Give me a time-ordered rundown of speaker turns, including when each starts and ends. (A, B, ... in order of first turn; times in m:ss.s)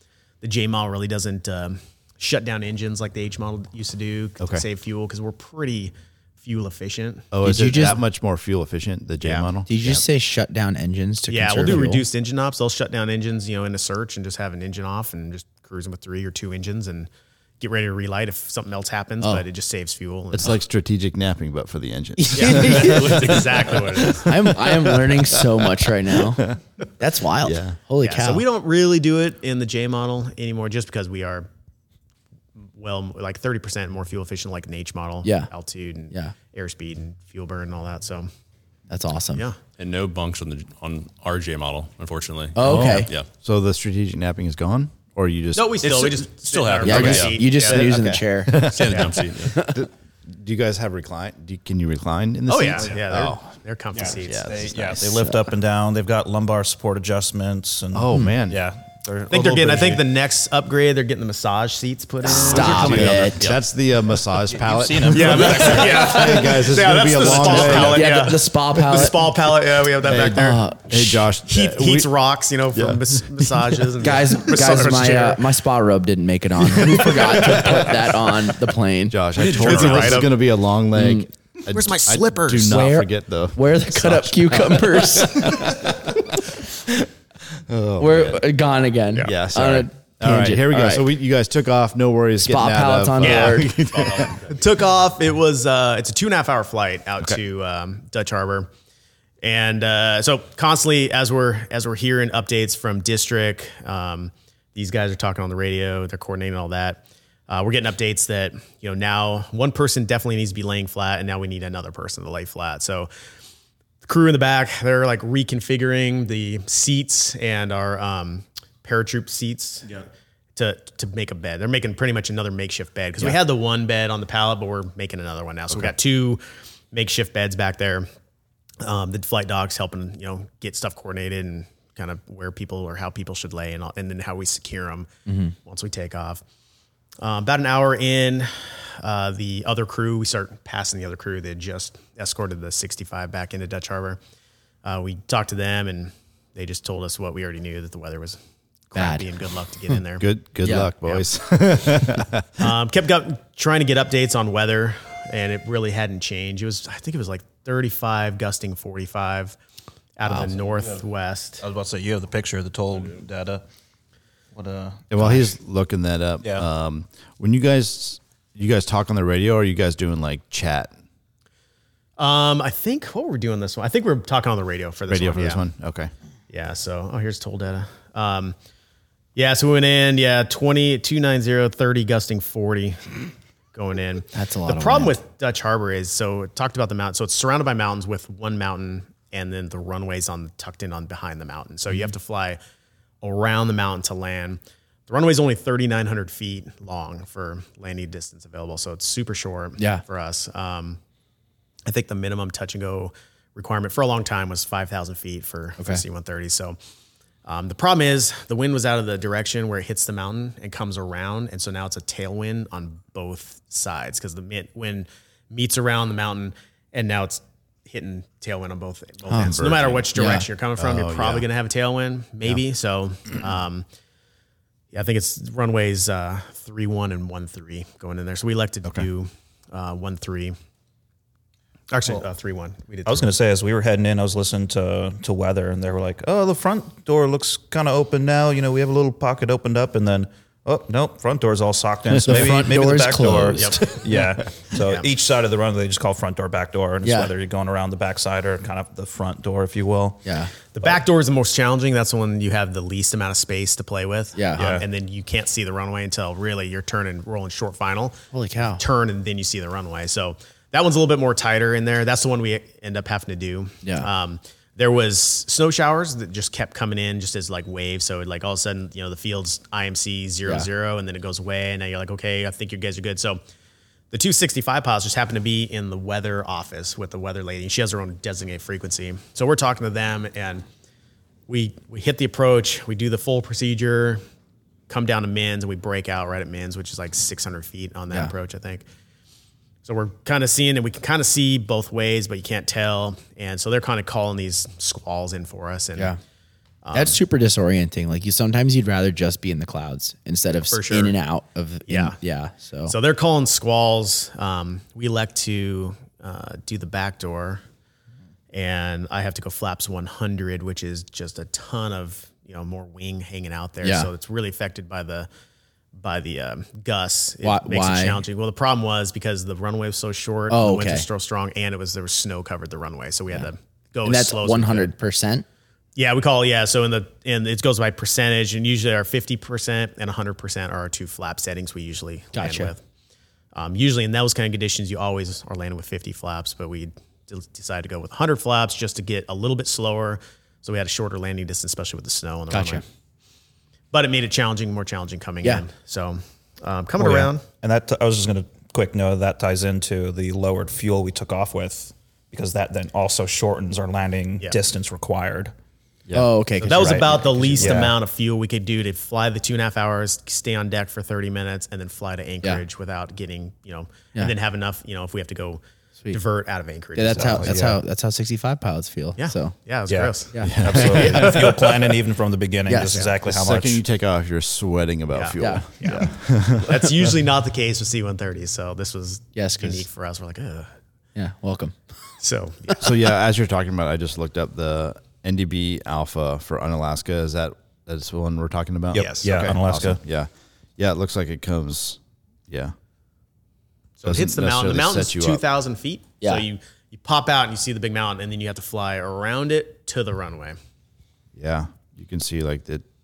0:00.4-0:07.3 A
0:04.4-0:04.6 B
0:07.3-0:10.0 B
0:07.4-0:08.0 C
0:09.2-0:09.5 A
0:09.7-0:12.0 C
0:11.3-0:17.1 A
0:17.6-0:20.6 A
0:20.3-0:26.6 B
0:22.2-0:23.3 C
0:22.3-0:24.3 A
0:24.2-0:26.5 C
0:27.0-0:28.4 C
0:27.4-0:27.8 B
0:28.0-0:31.5 A
0:32.8-0:38.3 A
0:35.2-0:35.5 C
0:38.9-0:39.5 C
0:39.8-0:43.3 D
0:42.6-0:43.1 C
0:42.6-0:45.8 B
0:45.6-0:47.9 A
0:45.8-0:47.5 D
0:46.8-0:48.8 C
0:47.6-0:53.4 B
0:48.7-0:49.6 D
0:49.5-0:49.8 C
0:52.5-0:54.5 A
0:53.9-1:00.0 E
0:54.2-0:55.2 B
0:57.9-0:58.6 B
0:59.3-1:03.3 A
1:02.3-1:03.4 C
1:02.5-1:03.6 E
1:02.6-1:08.1 B
1:04.4-1:06.4 E
1:05.1-1:10.6 A
1:07.7-1:09.3 C
1:10.0-1:11.3 C
1:10.2-1:12.1 B
1:11.5-1:15.4 A
1:12.8-1:13.9 B
1:14.0-1:19.2 C
1:16.8-1:17.9 B
1:19.1-1:27.0 B
1:19.4-1:20.4 A
1:19.4-1:19.8 D
1:21.0-1:21.3 C
1:21.7-1:22.8 A
1:22.6-1:25.7 C
1:27.7-1:28.5 B
1:28.0-1:31.1 C
1:29.2-1:34.4 B
1:32.4-1:33.7 C
1:33.2-1:33.7 A
1:33.9-1:34.6 D
1:34.5-1:38.7 A
1:39.4-1:53.1 A
1:54.0-2:00.0 A
2:00.6-2:08.1 A
2:08.8-2:15.1 A
2:15.3-2:15.6 C
2:15.6-2:16.4 A
2:17.2-2:24.2 A
2:24.8-2:28.4 A
2:28.9-2:30.3 A
2:29.0-2:29.3 C
2:30.2-2:32.7 B
2:30.6-2:30.9 C
2:32.6-2:39.6 A
2:40.2-2:41.6 A
2:40.3-2:41.0 E
2:41.6-2:43.6 E
2:44.6-2:45.5 E
2:45.1-2:50.9 B
2:52.2-2:55.6 A
2:55.1-2:56.1 B
2:56.5-2:58.6 A
2:59.4-3:12.6 A
3:04.3-3:05.2 C
3:13.2-3:21.0 A
3:21.9-3:26.8 A
3:27.4-3:43.8 A
3:39.3-3:39.6 C
3:39.4-3:40.1 B
3:40.2-3:40.4 C
3:40.8-3:41.5 B
3:44.9-3:50.6 A
3:51.9-3:53.3 A
3:53.0-4:10.2 E
4:02.2-4:03.9 C
4:03.5-4:03.8 A
4:04.8-4:05.1 A
4:07.0-4:07.3 C
4:10.2-4:10.5 C
4:10.8-4:18.2 A
4:14.4-4:14.6 C
4:14.6-4:14.8 E
4:18.3-4:18.8 C
4:18.8-4:33.4 A
4:23.8-4:24.1 C
4:34.1-4:40.6 A
4:41.5-4:44.2 A
4:44.9-4:48.8 A
4:49.8-4:56.1 A
4:56.8-4:57.2 A
4:56.9-5:02.9 C
5:00.7-5:01.1 A
5:01.9-5:02.2 A
5:02.9-5:07.6 A
5:08.5-5:15.3 A
5:13.8-5:14.1 C
5:16.0-5:24.9 A
5:17.4-5:18.2 C
5:20.5-5:21.1 C
5:24.0-5:25.4 C
5:26.0-5:32.8 A
5:32.4-5:32.7 C
5:33.5-5:42.8 A
5:42.5-5:42.8 C
5:43.9-5:47.4 A
5:47.0-5:55.5 E
5:56.1-5:57.9 C
5:56.6-6:07.6 A
5:57.6-5:57.9 E
6:07.0-6:09.6 C
6:07.1-6:07.8 E
6:09.2-6:12.0 A
6:09.9-6:13.8 E
6:10.4-6:11.4 B
6:12.7-6:13.1 C
6:13.2-6:16.9 B
6:15.1-6:20.7 A
6:15.4-6:15.7 C
6:19.4-6:19.9 C
6:21.2-6:21.8 C
6:22.2-6:22.9 A
6:22.8-6:32.7 B
6:28.9-6:30.0 E
6:28.9-6:29.5 A
6:34.0-6:40.6 A
6:34.0-6:35.4 B
6:41.4-6:42.8 B